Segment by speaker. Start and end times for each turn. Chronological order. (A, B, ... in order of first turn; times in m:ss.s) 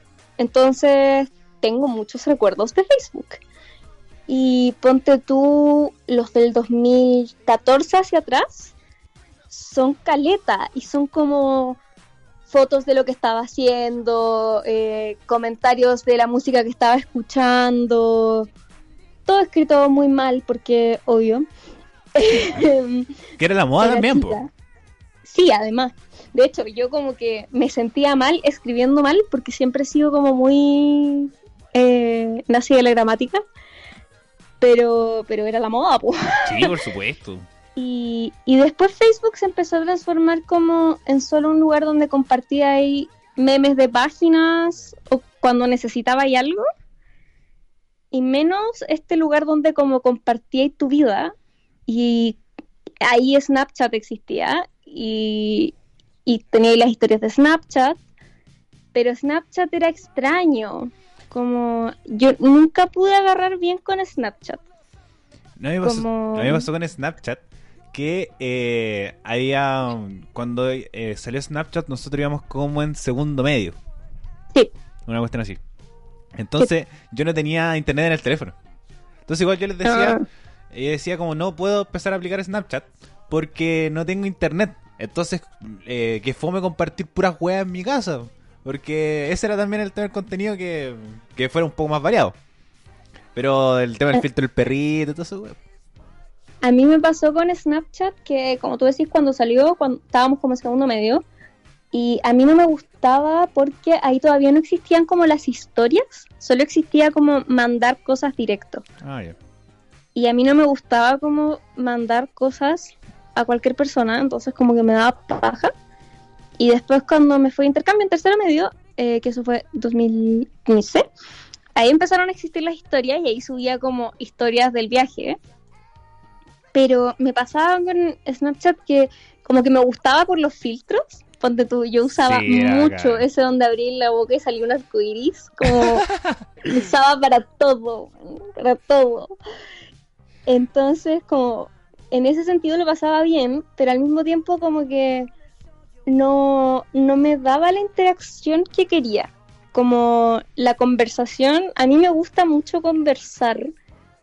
0:00.4-0:03.4 A
0:04.3-0:08.7 A
0:09.5-0:11.8 A
0:12.5-0:18.5 A
0:19.3-0:21.5 A
0:22.2-0:23.1 A
0:23.4-0:24.4 B
0:23.8-0:24.5 A
0:25.2-0:33.4 A
0:34.6-0:36.7 A
0:36.4-0:37.4 B
0:37.8-0:46.6 A
0:48.1-0:51.3 A
0:51.9-0:52.4 A
0:53.0-0:55.7 A
0:56.2-0:58.0 A
0:58.9-1:04.6 A
1:05.6-1:07.4 B
1:05.8-1:06.7 A
1:07.9-1:13.8 B
1:15.0-1:15.6 B
1:16.4-1:18.5 B
1:19.2-1:32.4 B
1:19.8-1:20.2 A
1:33.4-1:35.6 B
1:36.6-1:41.2 A
1:41.9-1:48.8 A
1:49.0-1:49.4 B
1:50.1-1:55.7 A
1:56.6-2:01.0 A
2:01.8-2:05.4 A
2:06.7-2:16.1 A
2:12.2-2:13.2 B
2:15.7-2:16.4 B
2:16.6-2:19.4 A
2:20.5-2:25.3 A
2:26.0-2:33.7 A